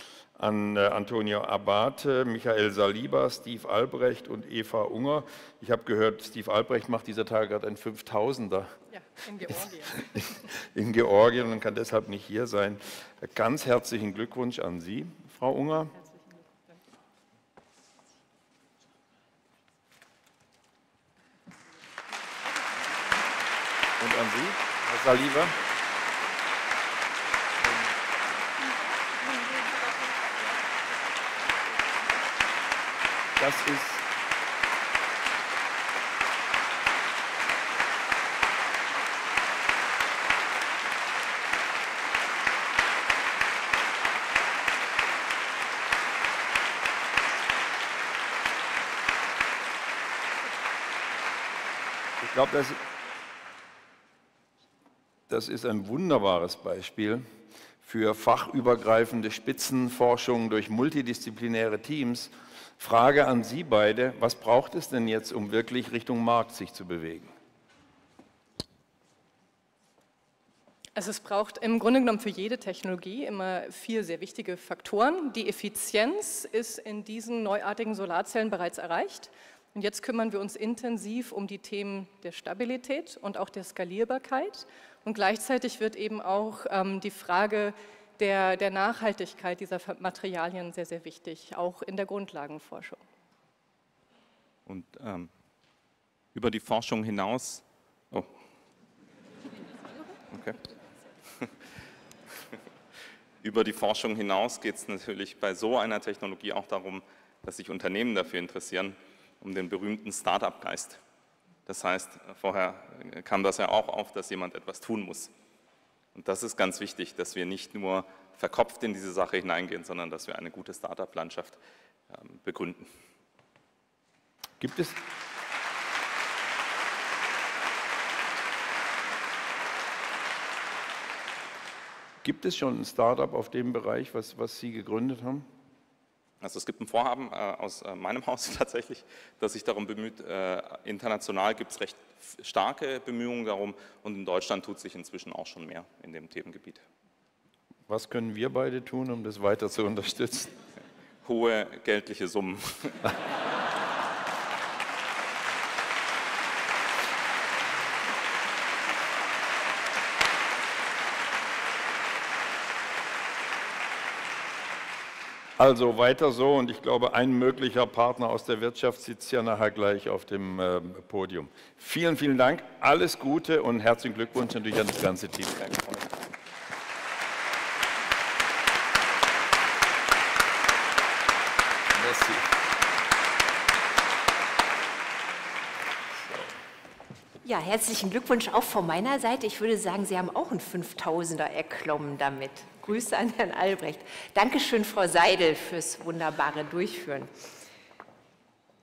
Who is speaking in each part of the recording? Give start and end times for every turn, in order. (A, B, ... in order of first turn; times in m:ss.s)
0:00.4-0:08.7 A
0:08.9-0:09.9 B
0:09.5-0:15.9 A
0:24.0-0:25.5 A
0:27.6-0:27.9 A
0:33.4-0:34.0 A
0:52.2-0:52.8 A
0:55.3-0:57.2 A
0:57.8-1:07.3 A
1:10.9-1:33.0 B
1:34.6-1:35.3 C
1:36.3-1:38.3 C
1:40.3-1:40.6 C
1:43.4-1:51.0 C
1:51.6-1:55.3 C
1:56.1-2:01.6 C
2:02.1-2:02.9 C
2:04.6-2:04.9 A
2:12.2-2:15.4 A
2:16.4-2:26.8 C
2:27.9-2:30.5 A
2:31.2-2:33.0 C
2:45.6-2:56.2 A
3:01.9-3:02.4 A
3:07.4-3:17.3 D